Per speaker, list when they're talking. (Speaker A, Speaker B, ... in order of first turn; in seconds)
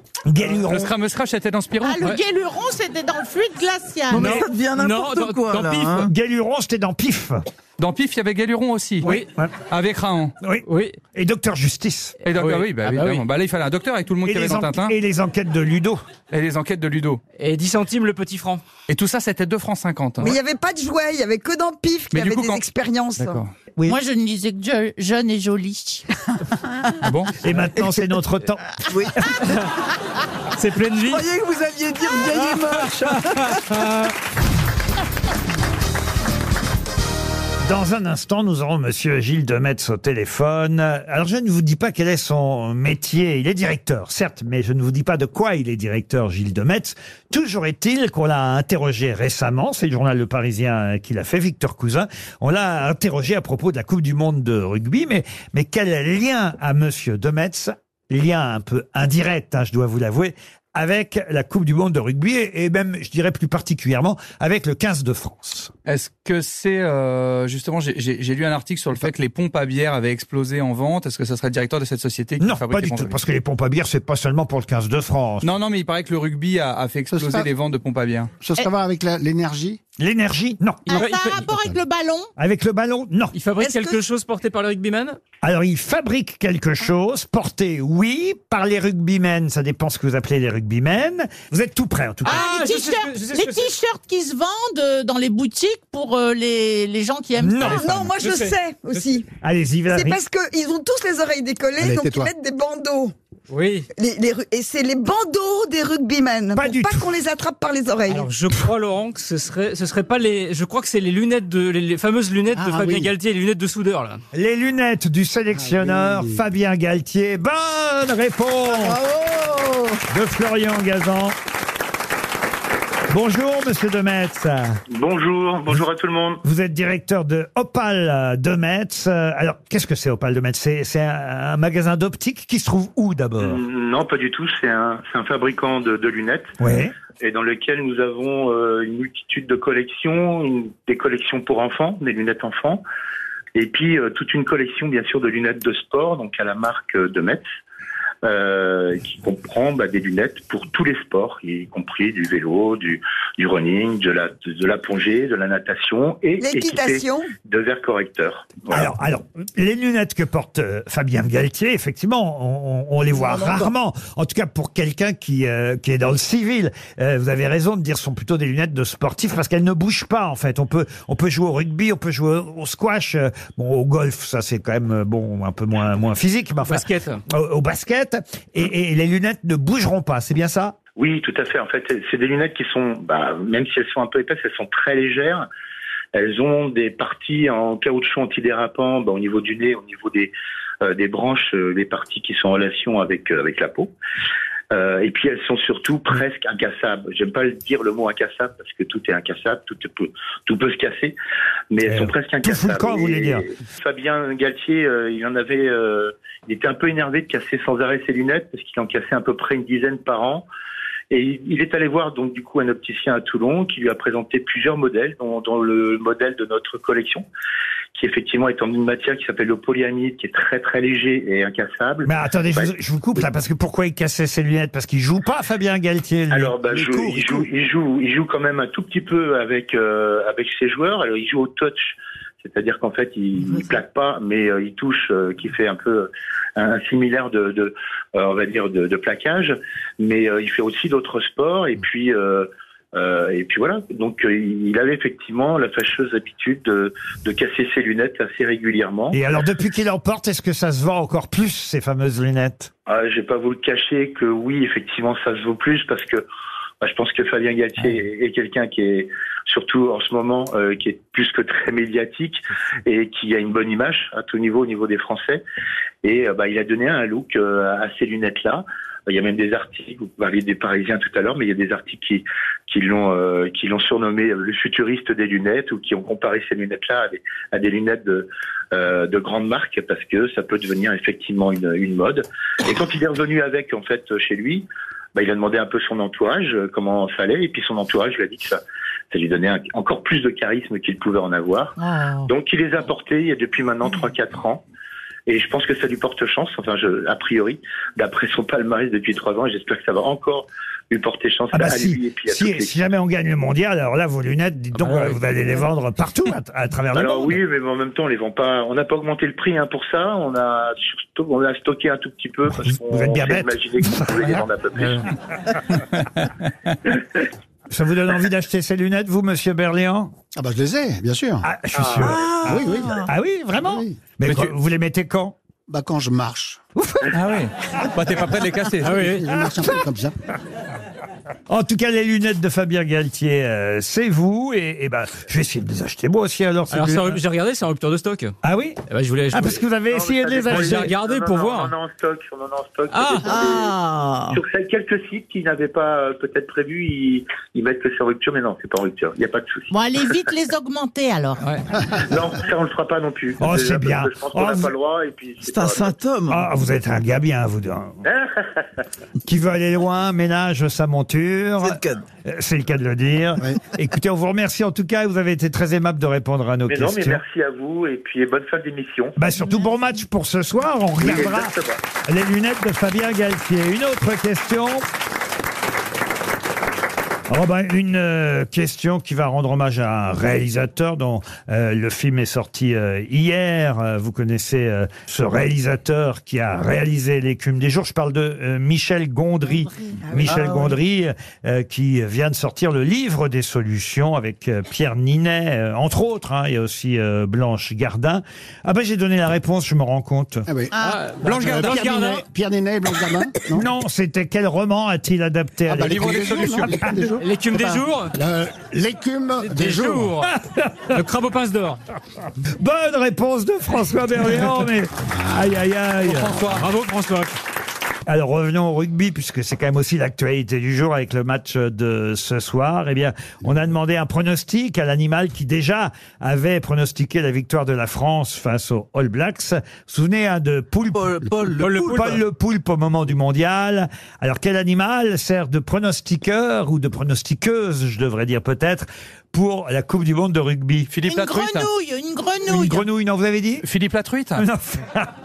Speaker A: 0.2-0.9, 6.0-7.4, 9.1-9.5, 10.4-12.2, 14.2-16.0, 27.4-28.6, 37.6-65.7, 72.4-75.5, 80.0-81.1, 82.4-83.3, 85.4-92.5, 97.4-98.0, 99.4-100.2, 106.5-107.1, 114.3-119.0, 120.1-121.3, 123.1-124.8, 126.4-133.6, 136.6-136.9, 158.7-180.8, 201.8-203.4, 222.0-227.1, 249.1-252.7, 301.5-307.4, 312.5-314.4, 317.7-320.1, 321.4-325.3, 326.8-327.1, 329.4-329.7, 331.5-337.2, 338.4-340.9, 353.4-354.7, 356.3-358.0, 359.2-367.2, 369.2-371.5, 372.1-374.8, 377.3-400.5, 403.5-406.8, 410.2-411.0, 412.6-416.4, 418.1-440.9, 442.5-443.7, 444.3-445.1
Speaker B: 0.5-2.0, 7.8-9.1, 9.7-10.3, 12.2-14.9, 16.3-17.2, 18.9-20.4, 22.1-22.6, 23.2-23.5, 27.0-27.3, 65.8-73.1, 75.4-78.3, 315.9-316.2, 324.2-324.5, 327.1-329.0, 401.2-401.9, 405.8-406.7, 416.0-416.6, 440.9-441.7, 443.6-444.4
Speaker C: 1.8-4.4, 23.9-26.1, 80.9-82.3, 92.2-97.8, 349.7-351.4, 400.7-401.0, 441.1-442.9
Speaker D: 4.1-6.1, 28.9-29.2, 31.1-33.6, 118.7-120.0, 163.2-163.7, 321.9-323.1, 343.3-344.4, 355.4-356.4, 361.6-362.0, 430.9-432.2
Speaker E: 4.1-6.1, 9.0-9.3, 10.6-11.0, 12.3-13.2, 17.4-18.6, 30.6-31.3, 32.3-34.1, 80.9-81.5, 83.3-85.2, 92.2-93.7, 98.2-99.0, 103.5-103.9, 108.1-114.2, 176.7-177.2, 304.8-305.6, 328.8-329.4, 336.7-338.4, 338.9-339.6, 340.5-341.7, 342.9-343.7, 400.8-402.2, 407.2-408.1, 409.4-410.3, 410.9-411.8, 416.5-417.4, 431.6-432.1
Speaker F: 20.2-23.4, 97.8-99.2, 99.9-103.1, 103.9-108.3, 156.4-157.3, 390.0-390.7
Speaker G: 77.1-77.5, 78.4-79.8, 101.8-102.3, 112.5-113.1, 115.5-116.4, 226.7-227.4, 320.4-321.4, 322.4-323.0, 323.6-324.0, 325.7-326.6, 328.9-330.1, 390.3-390.6, 400.5-400.7, 401.2-403.6, 405.7-410.2
Speaker H: 124.9-126.4, 133.4-136.5, 137.2-142.8, 143.5-147.4, 148.2-158.9, 181.0-185.4, 186.1-193.9, 194.7-201.1, 201.7-210.4, 211.1-217.2, 217.9-222.7, 226.3-249.2, 252.9-256.2, 256.8-265.4, 266.0-288.6, 289.1-294.6, 295.3-302.7, 306.9-315.1, 321.8-322.1, 339.8-343.8, 344.3-349.7, 352.0-355.9, 358.0-358.6, 366.7-369.1, 371.0-371.8